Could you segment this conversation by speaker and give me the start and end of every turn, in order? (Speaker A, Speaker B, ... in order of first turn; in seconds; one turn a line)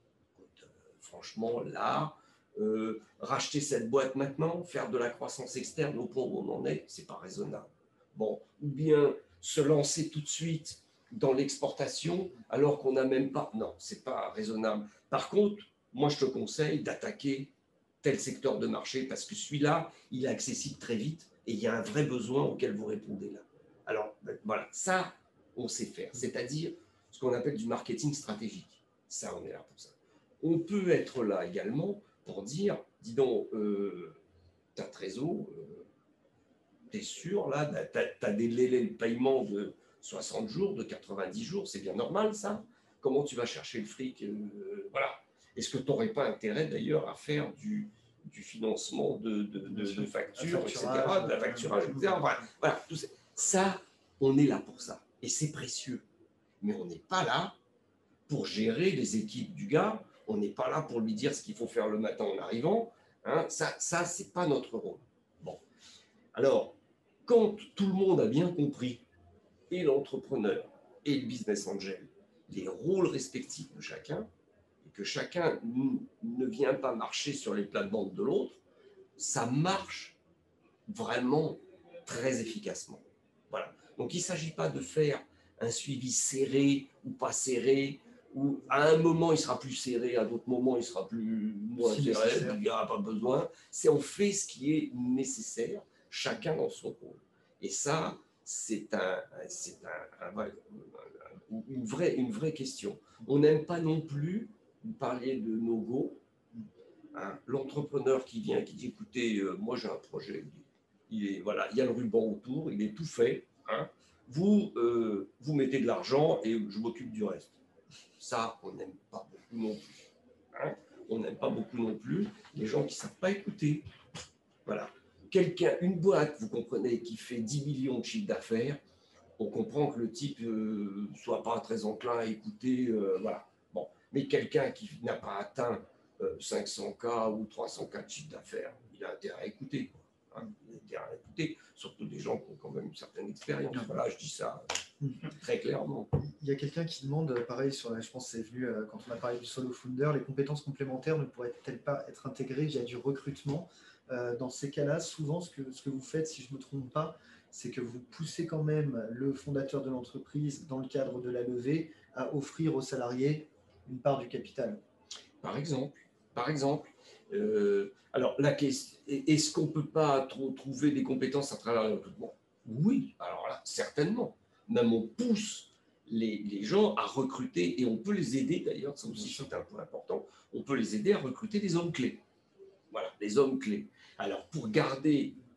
Speaker A: 0.3-34.2
Speaker A: 34.7-35.9
Speaker A: 36.9-56.0
Speaker B: 49.7-52.5
Speaker A: 56.6-57.5
Speaker A: 58.3-65.6
Speaker A: 66.3-69.0
Speaker A: 69.7-74.3
Speaker A: 74.8-78.6
Speaker A: 79.2-80.2
Speaker A: 80.8-106.2
Speaker B: 91.8-92.6
Speaker A: 107.1-117.6
Speaker A: 118.2-123.9
Speaker A: 124.6-128.8
Speaker A: 129.4-146.1
Speaker B: 146.2-164.8
Speaker A: 165.4-182.2
Speaker B: 179.2-179.4
Speaker A: 182.9-185.4